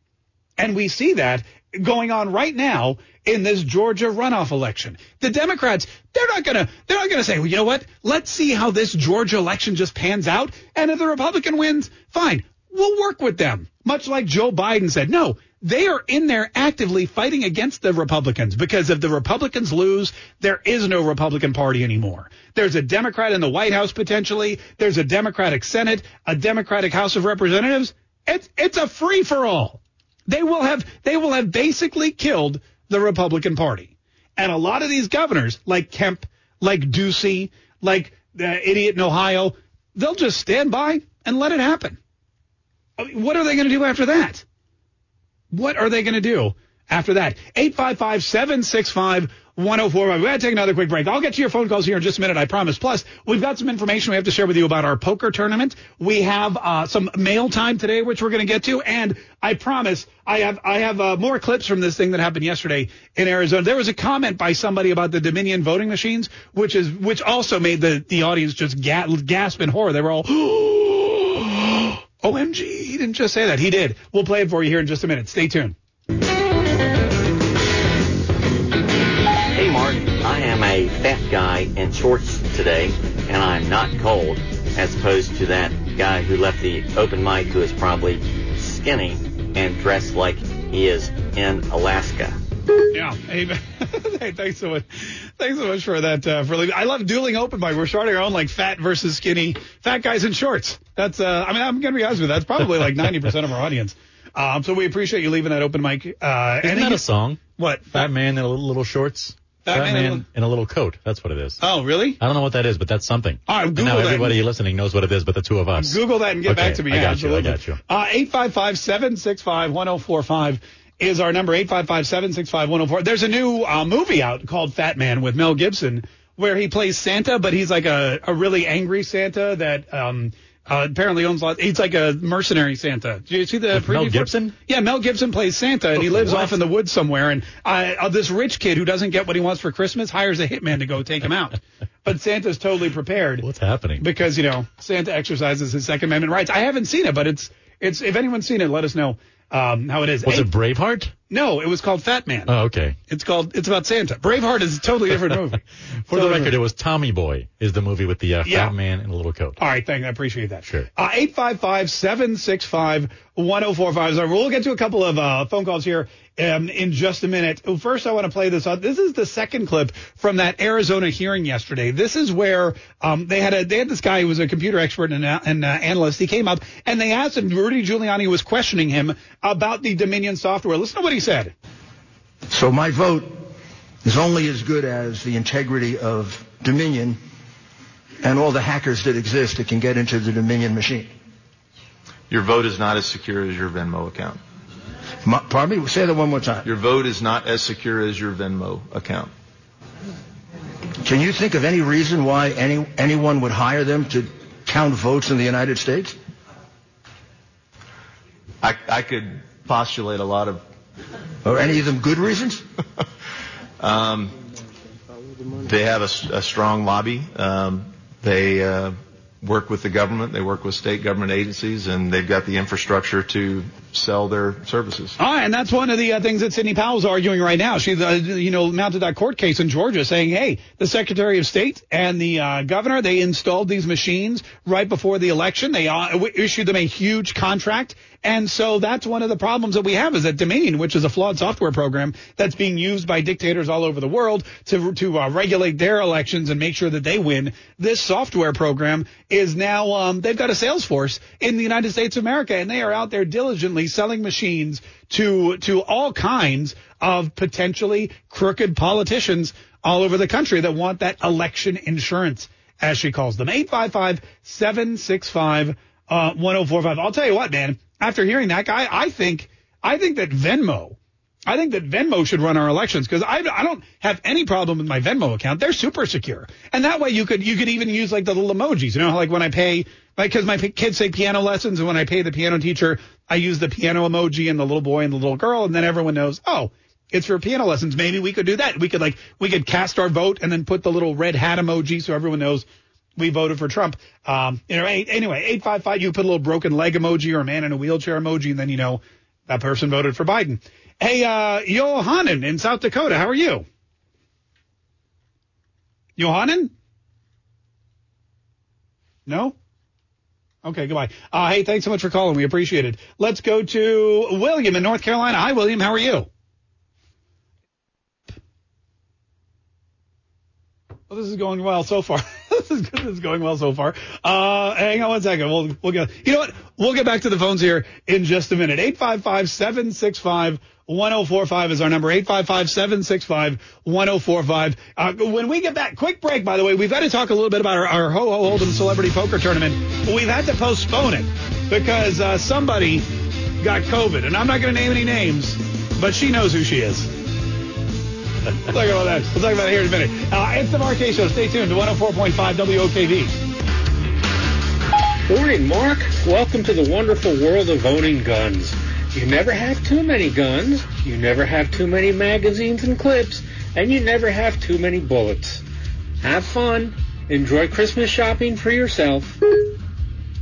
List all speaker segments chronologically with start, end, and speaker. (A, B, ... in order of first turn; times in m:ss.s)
0:00.6-0:42.0 A
0:43.0-0:44.4 A
0:45.5-1:15.7 A
1:19.5-1:32.4 B
1:32.9-1:47.0 A
1:46.6-1:51.6 C
1:47.6-1:48.1 A
1:49.6-1:50.2 A
1:51.6-1:52.2 A
1:52.2-1:57.8 C
1:53.5-1:54.4 A
1:55.8-2:23.4 A
2:13.7-2:14.5 C
2:16.0-2:16.6 C
2:23.4-2:24.0 C
2:24.0-2:30.5 A
2:30.2-2:31.1 C
2:31.3-2:32.5 A
2:32.5-2:33.0 C
2:33.1-2:36.5 A
2:36.1-2:39.6 C
2:38.4-2:38.7 A
2:39.6-3:01.5 A
3:02.5-3:03.5 D
3:04.0-3:07.2 D
3:08.2-3:11.1 D
3:12.3-3:14.4 E
3:15.2-3:16.6 D
3:16.6-3:19.3 E
3:21.0-3:26.2 D
3:28.6-3:30.6 E
3:31.4-3:32.6 D
3:33.8-3:34.3 E
3:35.5-3:45.2 E
3:45.2-4:52.6 A
4:53.2-5:03.6 A
5:06.2-5:06.7 A
5:09.3-5:09.5 A
5:10.6-5:16.3 A
5:21.1-5:43.0 A
5:43.6-5:47.1 A
5:48.6-5:53.3 A
5:55.3-6:05.6 F
6:06.2-6:09.4 F